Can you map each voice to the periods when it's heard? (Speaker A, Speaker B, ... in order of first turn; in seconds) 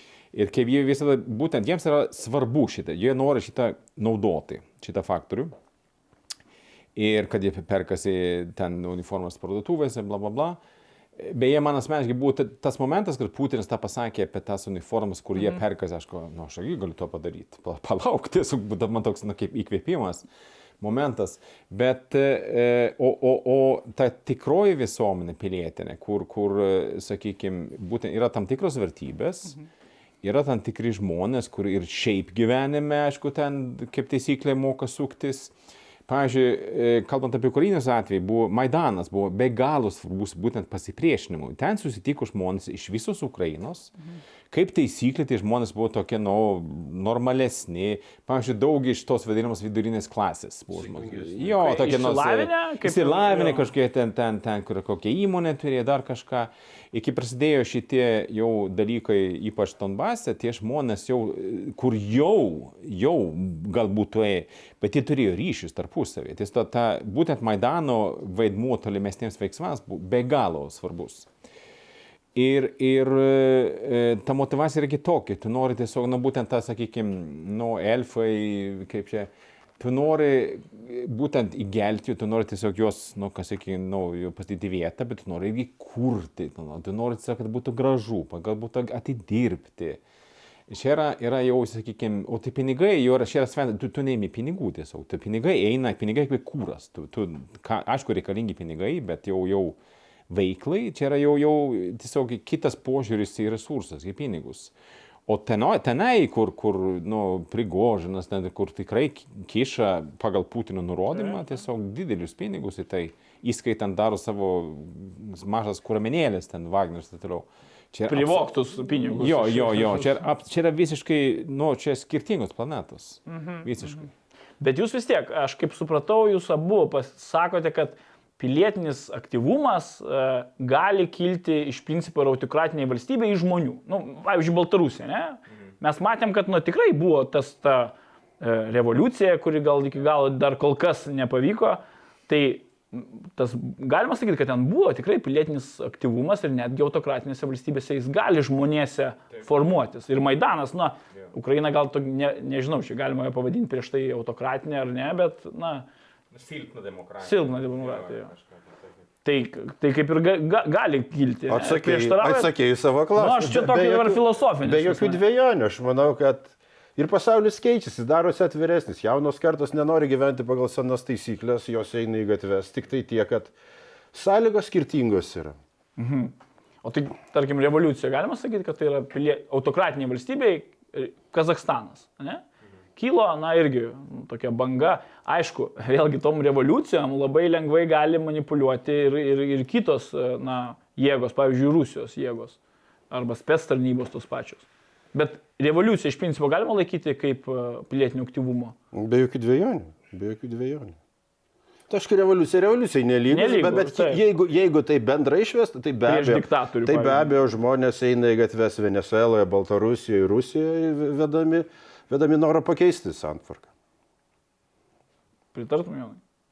Speaker A: 0.3-5.5, 6.9-10.6, 11.2-20.2, 20.8-29.6, 30.2-35.5, 36.1-43.9, 44.5-71.3, 72.3-90.0, 90.7-99.8, 100.3-104.7, 105.3-118.5, 119.1-124.1, 156.3-158.4
Speaker B: 50.7-51.5, 161.5-173.5, 174.1-175.6, 198.9-200.9, 201.9-213.7
Speaker C: 51.6-53.7, 118.1-120.2, 123.3-123.7, 124.6-155.9, 157.2-158.3, 159.2-162.5, 163.2-165.2, 176.0-182.4, 182.9-192.6, 193.1-198.7, 203.3-204.2, 206.1-207.3, 215.5-216.2